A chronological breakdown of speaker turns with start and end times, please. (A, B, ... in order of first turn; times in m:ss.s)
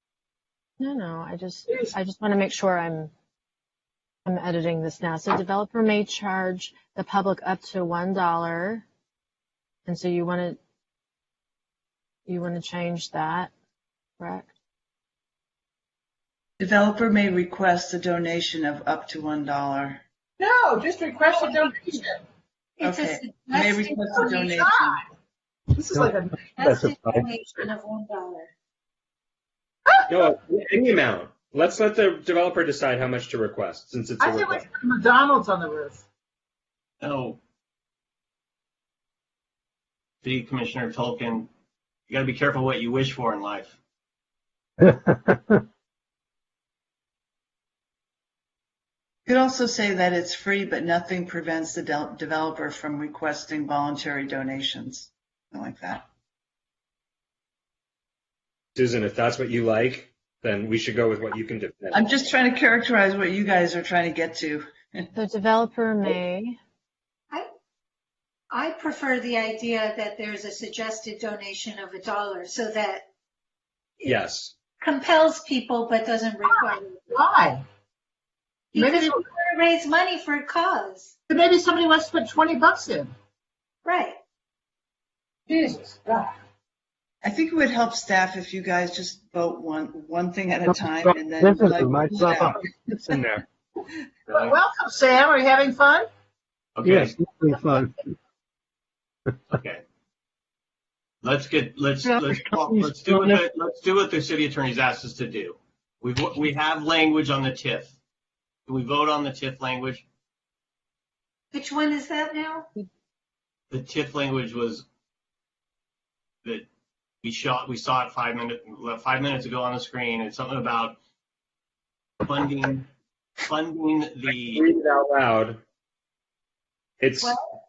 0:00.8-0:03.1 A
0:04.2-0:08.8 A
0:09.9-0:10.6 A
0:12.3-0:13.5 A
0:14.2-0:14.5 A
0:16.6-0:20.0 B
0:20.4-0:22.2 C
0:22.8-0:24.6 D
0:22.8-0:25.0 B
0:24.0-0:25.0 C
0:25.7-0:26.4 C
0:26.5-0:28.5 D
0:26.6-0:27.2 E
0:29.9-0:30.2 C
0:30.1-0:34.6 E
0:34.2-0:36.0 C
0:37.0-0:37.4 F
0:40.2-0:41.5 F
0:42.1-0:43.8 F
0:49.3-0:56.0 B
0:58.8-1:02.0 E
1:01.9-1:05.0 B
1:05.1-1:06.6 A
1:08.5-1:13.0 D
1:14.0-1:14.3 D
1:14.0-1:14.5 E
1:14.8-1:17.1 D
1:16.4-1:17.6 C
1:18.7-1:21.1 D
1:18.8-1:19.2 C
1:21.3-1:23.1 C
1:23.8-1:24.2 D
1:25.5-1:26.4 C
1:27.2-1:33.3 B
1:31.0-1:32.6 G
1:34.3-1:34.5 F
1:34.4-1:36.1 C
1:36.8-1:37.2 F
1:36.8-1:37.9 G
1:39.6-1:39.8 F
1:41.2-1:47.9 F
1:42.2-1:43.4 G
1:48.7-1:50.0 F
1:51.5-1:52.7 D
1:53.7-1:54.8 F
1:57.2-2:01.0 F
2:02.2-2:02.9 F
2:03.5-2:04.6 F
2:04.4-2:05.6 E
2:07.0-2:07.3 E
2:07.2-2:07.5 D